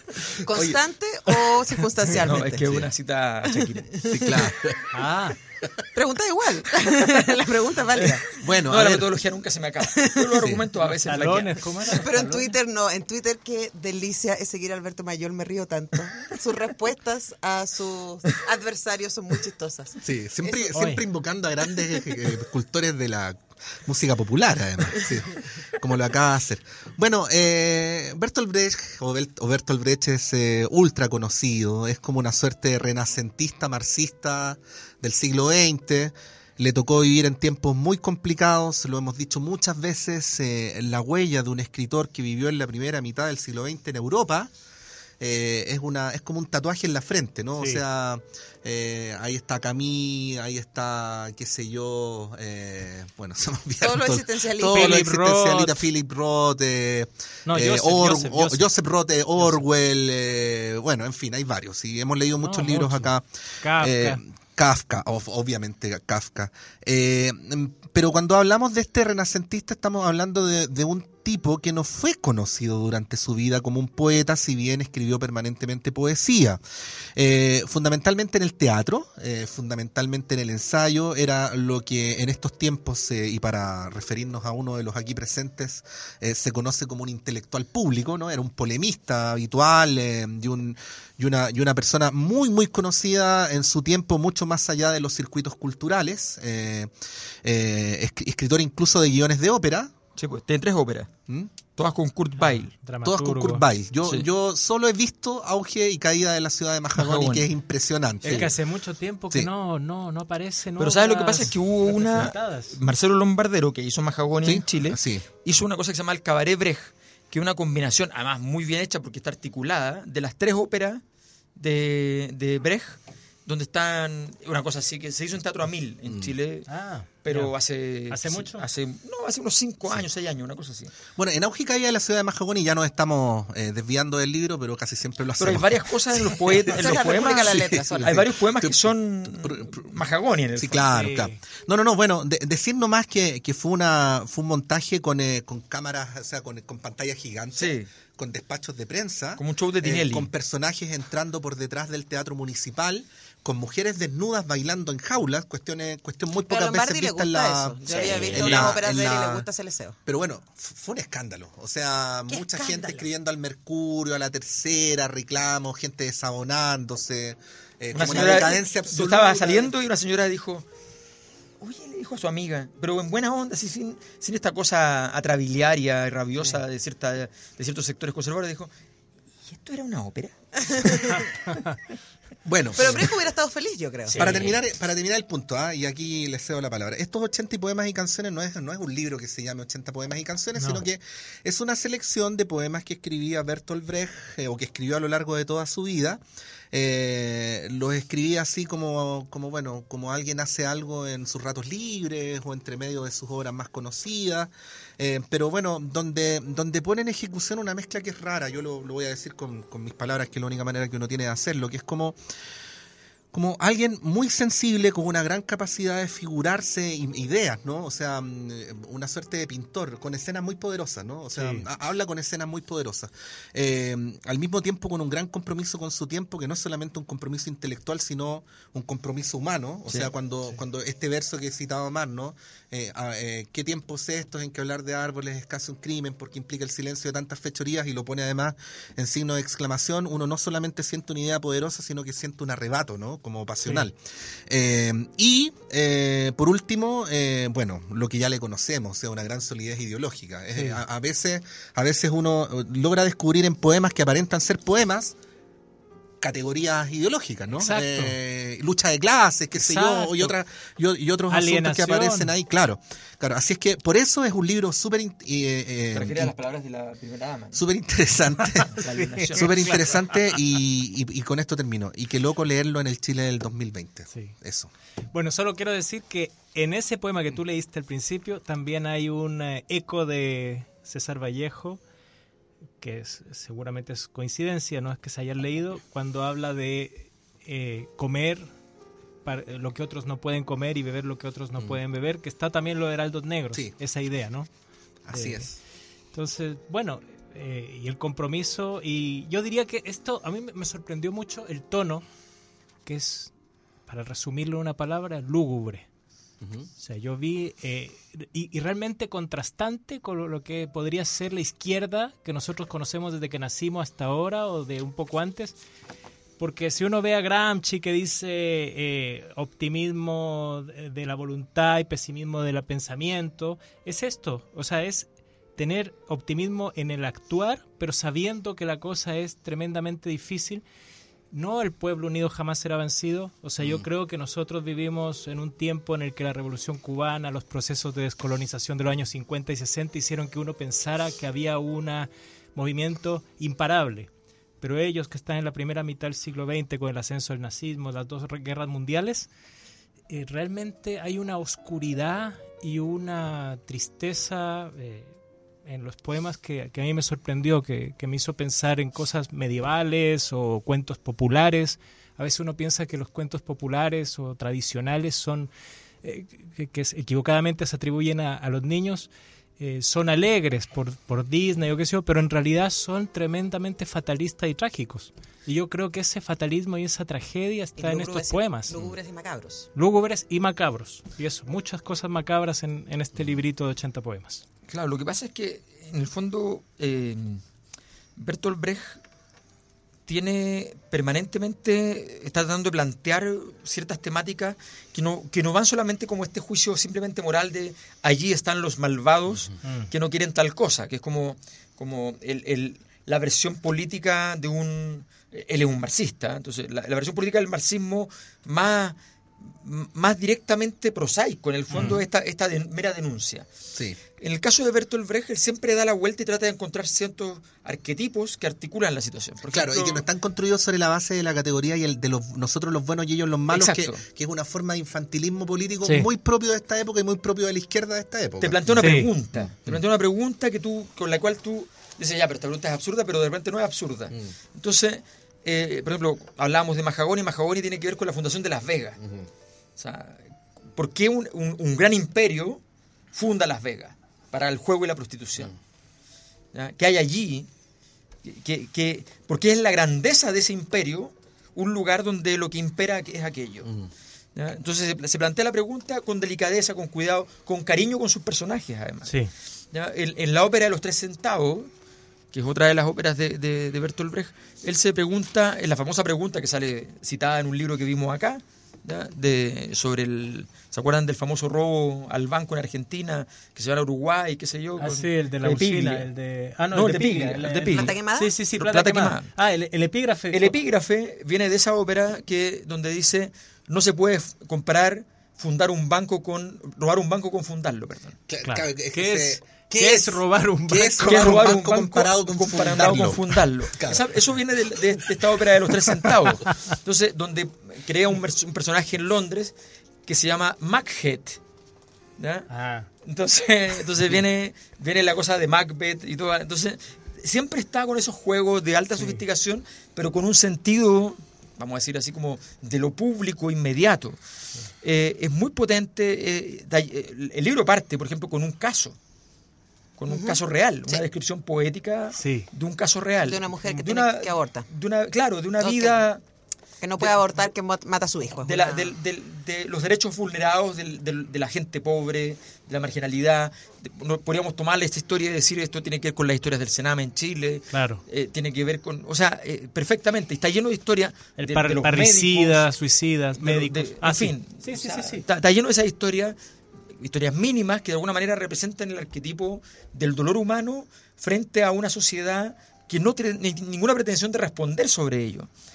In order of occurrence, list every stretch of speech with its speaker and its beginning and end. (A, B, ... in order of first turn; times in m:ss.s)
0:00.4-0:02.6 A
0:00.5-0:00.8 B
0:02.2-0:04.1 C
0:02.6-0:02.9 B
0:03.5-0:04.5 A
0:04.1-0:04.8 B
0:04.9-0:05.4 D
0:05.9-0:08.2 A
0:08.0-0:12.5 C
0:08.4-0:09.1 B
0:09.8-0:10.4 A
0:10.4-0:10.6 B
0:11.0-0:12.1 D
0:11.9-0:20.6 A
0:20.0-0:44.5 B
0:20.7-0:21.0 D
0:45.2-1:16.6 B
0:47.6-0:47.8 D
0:53.8-0:55.1 A
0:54.6-0:55.8 D
0:57.4-0:58.7 D
0:59.4-0:59.7 D
1:02.4-1:03.1 D
1:03.6-1:04.2 D
1:17.2-1:36.9 B
1:37.4-1:39.9 B
1:40.2-1:41.1 C
1:41.8-1:42.7 C
1:42.4-1:43.6 D
1:43.0-1:48.5 B
1:47.0-1:47.5 C
1:48.2-1:52.8 D
1:50.8-2:01.0 C
1:54.4-1:55.2 B
2:01.6-2:06.7 C
2:06.1-2:06.3 B
2:06.7-2:07.5 D
2:07.2-2:10.9 C
2:08.1-2:08.6 D
2:11.2-2:20.0 B
2:15.4-2:20.9 C
2:16.8-2:18.2 A
2:20.6-2:39.5 B
2:20.9-2:21.4 D
2:27.6-2:27.9 C
2:29.4-2:30.3 C
2:36.4-2:40.0 A
2:37.8-2:38.8 C
2:40.1-2:49.7 B
2:42.3-2:43.0 A
2:47.9-2:50.7 C
2:51.6-2:58.7 C
2:59.4-3:01.0 C
3:00.6-3:01.4 A
3:02.4-3:03.1 B
3:02.8-3:04.4 A
3:04.1-3:04.6 C
3:04.2-3:32.2 B
3:10.6-3:10.8 D
3:33.3-4:15.2 B
3:41.3-3:41.6 D
4:10.5-4:10.8 D
4:16.2-4:26.3 B
4:17.6-4:18.2 D
4:19.6-4:20.3 D
4:21.3-4:22.3 D
4:25.9-4:27.6 C
4:27.5-4:28.8 B
4:28.8-4:29.9 C
4:29.0-4:30.4 D
4:29.3-4:34.7 B
4:35.1-4:41.8 D
4:42.8-4:48.5 D
4:49.2-4:54.5 D
4:55.0-4:55.6 B
4:55.1-4:55.5 D
4:56.1-5:02.0 D
5:02.8-5:03.3 D
5:03.9-5:05.8 D
5:06.4-5:06.7 B
5:06.8-5:15.6 D
5:16.4-5:30.6 D
5:31.3-5:44.1 D
5:33.6-5:33.8 B
5:44.6-5:49.3 D
5:50.1-6:05.5 D
6:06.0-6:18.7 D
6:17.8-6:19.7 A
6:19.8-6:24.4 D
6:24.7-6:27.4 C
6:28.2-6:29.0 C
6:30.1-6:53.5 C
6:53.7-6:54.0 B
6:54.2-7:00.0 C
6:59.5-7:09.8 B
7:03.5-7:04.0 C
7:08.4-7:19.0 C
7:08.8-7:09.1 D
7:19.0-7:19.3 B
7:19.8-7:22.6 C
7:23.1-7:25.5 C
7:26.5-7:27.5 C
7:28.2-7:33.7 C
7:34.4-7:39.2 C
7:39.7-7:41.7 C
7:42.3-7:56.1 C
7:54.8-8:00.6 D
7:56.7-7:58.0 C
7:57.7-7:58.4 A
7:58.5-7:59.3 C
8:00.3-8:08.2 C
8:08.3-8:14.0 B
8:08.4-8:11.5 D
8:11.0-8:19.5 C
8:20.0-8:21.4 C
8:22.2-8:22.5 C
8:22.5-8:22.9 D
8:23.0-8:34.2 C
8:34.8-8:39.0 C
8:40.0-8:46.2 C
8:40.1-8:41.0 A
8:42.1-8:42.5 D
8:43.3-8:44.7 A
8:45.6-8:46.0 A
8:46.8-8:48.9 A
8:48.4-9:02.7 C
8:57.7-8:58.0 D
9:01.4-9:05.2 D
9:03.4-9:06.4 C
9:06.9-9:15.5 C